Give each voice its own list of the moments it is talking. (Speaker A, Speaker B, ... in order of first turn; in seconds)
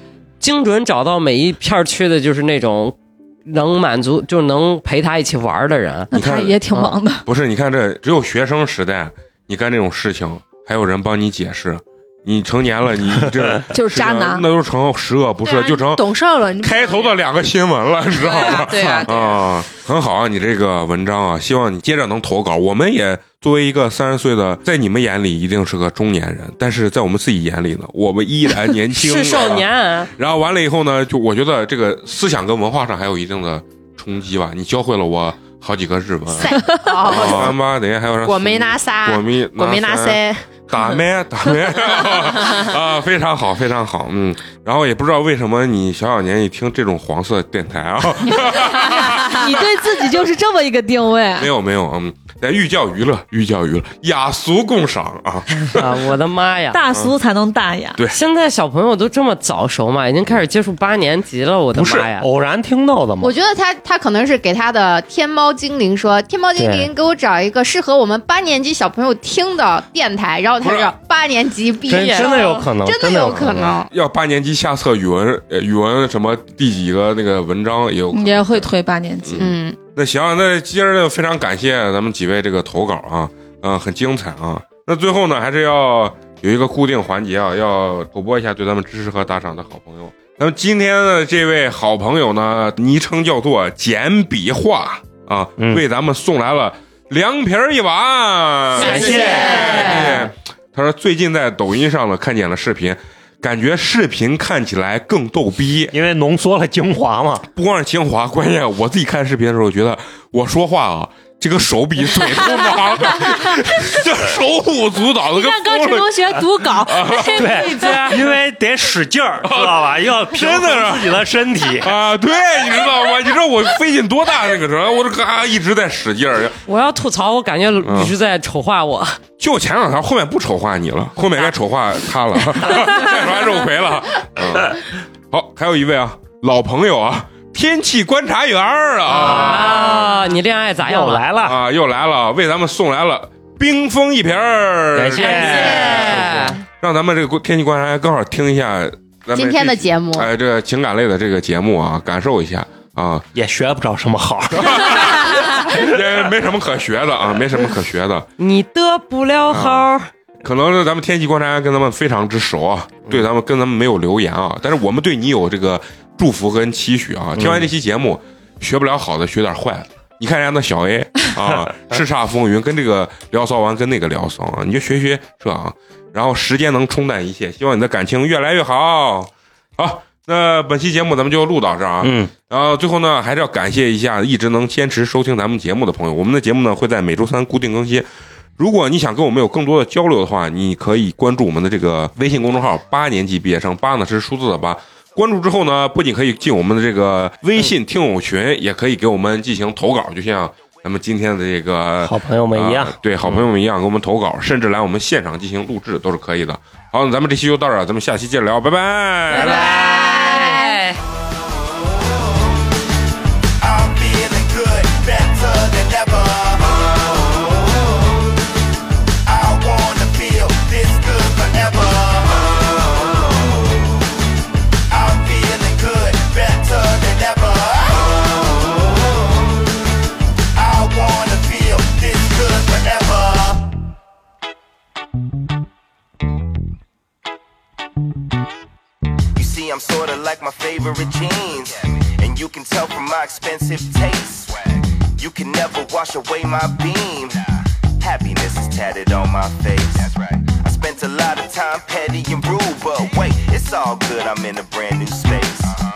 Speaker A: 0.4-6.1, 6.7-7.0, 18.6-19.1, 28.9-30.1, 55.7-56.8, 58.1-62.3, 71.9-72.6, 98.8-99.7, 117.0-118.4, 126.7-129.2, 131.2-131.5, 139.1-141.3, 145.2-146.6, 158.4-160.1, 209.3-211.0
Speaker B: 6.1-6.6, 7.3-16.1, 16.6-49.9, 51.4-55.8, 70.6-71.0, 73.3-78.7, 79.3-105.9, 107.5-117.7, 119.4-121.2, 121.8-126.6, 127.8-128.2, 129.4-140.0, 141.4-153.2, 154.6-158.3, 159.5-159.9, 160.4-188.1, 188.6-210.0
Speaker C: 6.1-7.2, 13.7-14.5, 36.6-37.1, 48.6-51.5, 56.7-58.0, 78.1-79.5
Speaker D: 15.4-17.2, 18.2-19.4, 36.4-37.5, 38.2-40.5, 115.4-117.1
Speaker E: 61.7-63.4, 66.5-66.9, 71.9-73.7, 98.8-100.3, 105.9-107.5, 117.3-121.9, 139.2-140.2, 140.8-141.6, 144.9-146.6, 153.3-155.9, 167.4-167.7, 182.0-182.3, 202.0-202.9
Speaker F: 63.2-73.9, 79.4-79.8, 149.3-150.3, 210.2-210.5
Speaker G: 213.6-216.9, 219.2-222.7, 224.9-228.2, 230.5-233.7, 239.3-255.8